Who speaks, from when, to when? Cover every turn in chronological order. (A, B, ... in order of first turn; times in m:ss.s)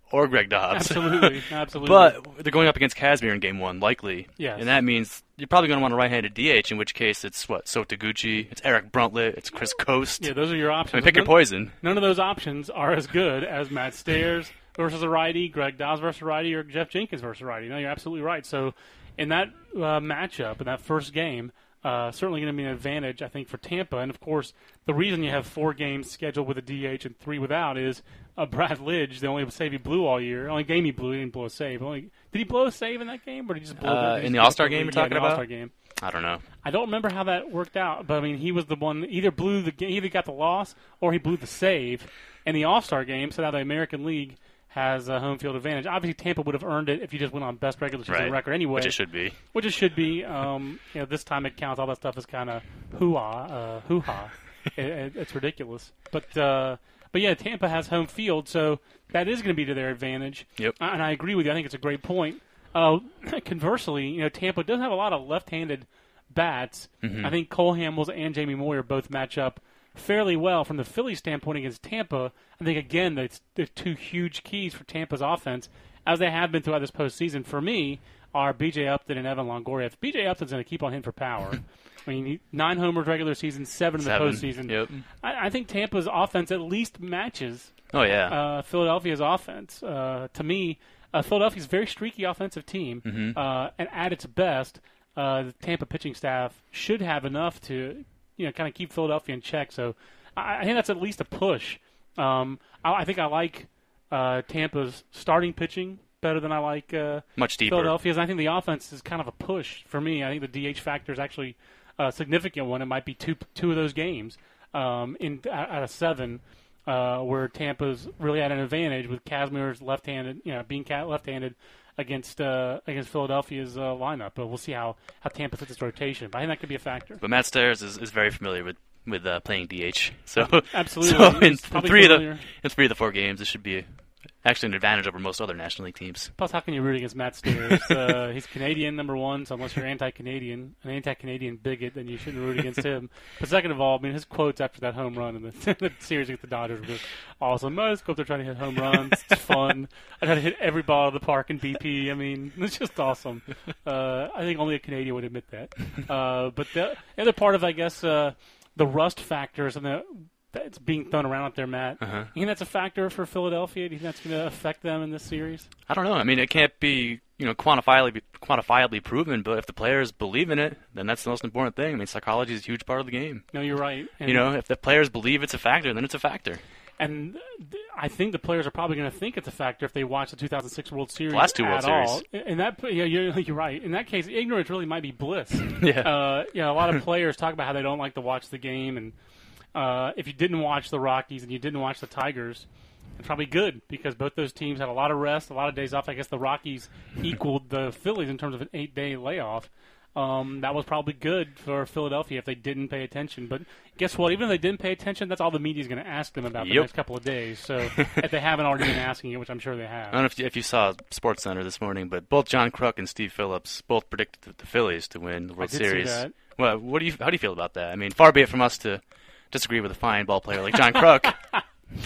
0:00.1-0:10.3 A
0:00.7-0:02.1 B
0:04.4-0:04.7 B
0:10.2-0:35.7 B
0:10.9-0:11.7 A
0:33.8-0:35.4 A
0:36.0-0:36.4 A
0:36.6-0:49.0 B
0:48.1-0:49.4 A
0:49.5-2:07.2 B
1:07.0-1:07.3 A
1:24.0-1:25.0 A
1:27.9-1:28.3 A
1:33.0-1:33.4 A
1:47.4-1:47.9 A
2:07.2-2:13.8 A
2:10.4-2:12.4 B
2:14.4-2:16.3 A
2:16.4-2:45.7 B
2:42.0-2:42.3 A
2:45.9-2:53.5 A
2:53.5-2:54.5 B
2:54.2-2:56.6 A
2:57.0-3:09.1 B
3:01.3-3:02.2 A
3:05.8-3:06.1 A
3:09.7-3:12.7 B
3:13.2-3:30.2 B
3:26.6-3:26.9 A
3:30.1-3:41.4 A
3:35.6-3:36.3 B